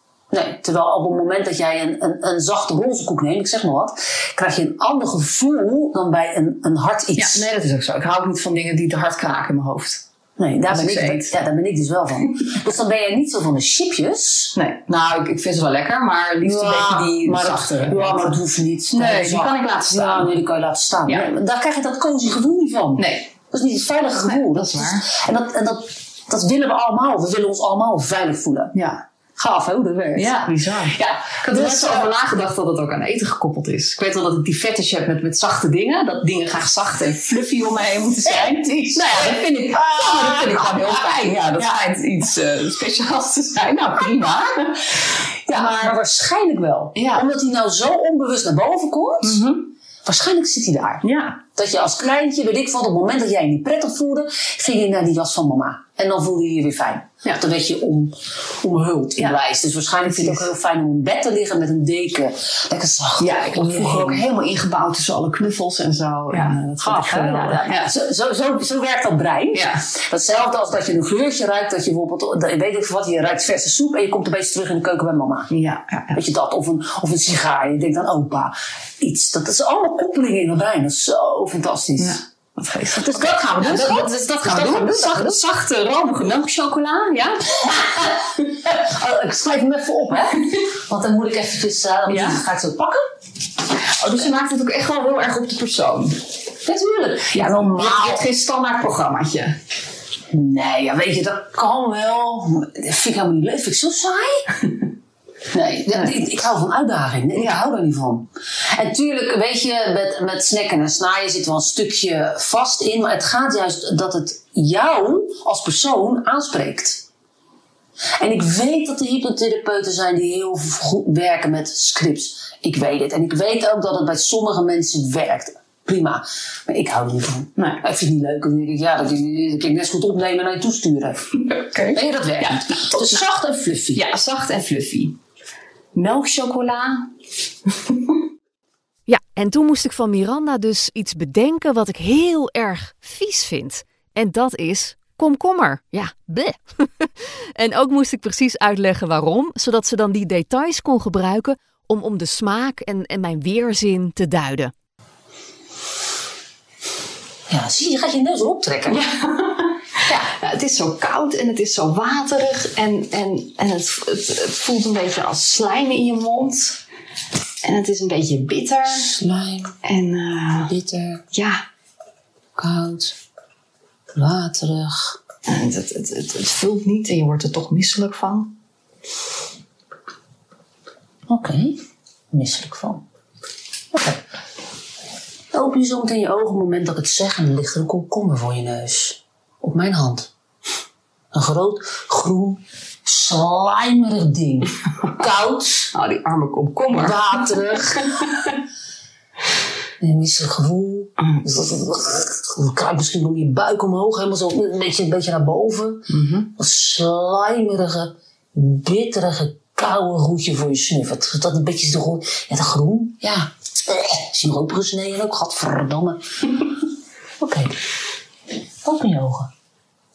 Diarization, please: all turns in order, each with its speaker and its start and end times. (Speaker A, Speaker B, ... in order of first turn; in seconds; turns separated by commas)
Speaker A: 0.3-7.5, Speaker B: 7.2-10.0, Speaker A: 10.4-14.5, Speaker B: 10.7-11.3, Speaker B: 14.5-20.4, Speaker A: 16.4-28.7, Speaker B: 23.0-23.3, Speaker B: 24.2-25.1, Speaker B: 28.7-29.0, Speaker A: 29.4-30.5, Speaker B: 30.1-45.9, Speaker A: 31.4-32.1, Speaker A: 38.2-41.3, Speaker A: 45.5-49.5, Speaker B: 46.9-47.2, Speaker B: 49.2-49.7, Speaker A: 50.0-64.3, Speaker B: 51.0-51.4, Speaker B: 60.0-60.5, Speaker B: 63.2-67.9, Speaker A: 66.3-75.5, Speaker B: 69.5-69.8, Speaker B: 75.5-76.2, Speaker A: 76.1-82.2, Speaker B: 82.0-87.8, Speaker A: 82.9-85.4, Speaker A: 87.7-93.0, Speaker B: 92.1-92.4, Speaker B: 93.7-96.2, Speaker A: 96.6-98.3, Speaker B: 97.3-99.6, Speaker A: 100.3-104.5, Speaker A: 105.5-117.0, Speaker B: 107.3-107.6, Speaker A: 118.2-134.0, Speaker B: 127.6-127.8, Speaker B: 131.5-133.2, Speaker B: 133.9-135.2, Speaker B: 135.9-137.1, Speaker B: 137.9-138.1, Speaker C: 139.1-154.7, Speaker A: 157.5-159.0, Speaker B: 158.8-166.8, Speaker B: 167.6-169.1, Speaker A: 169.0-169.8, Speaker B: 169.8-170.7, Speaker A: 170.7-171.2, Speaker B: 171.3-171.6, Speaker A: 172.6-173.2, Speaker A: 174.1-175.2, Speaker B: 175.4-178.5, Speaker A: 181.3-181.8, Speaker A: 182.3-183.0, Speaker A: 183.9-184.2, Speaker A: 185.5-190.3, Speaker A: 191.3-195.9, Speaker B: 195.9-197.5, Speaker A: 196.9-198.3, Speaker A: 200.0-216.2, Speaker B: 201.2-201.4, Speaker B: 206.1-206.5, Speaker A: 217.4-217.8, Speaker A: 218.8-219.5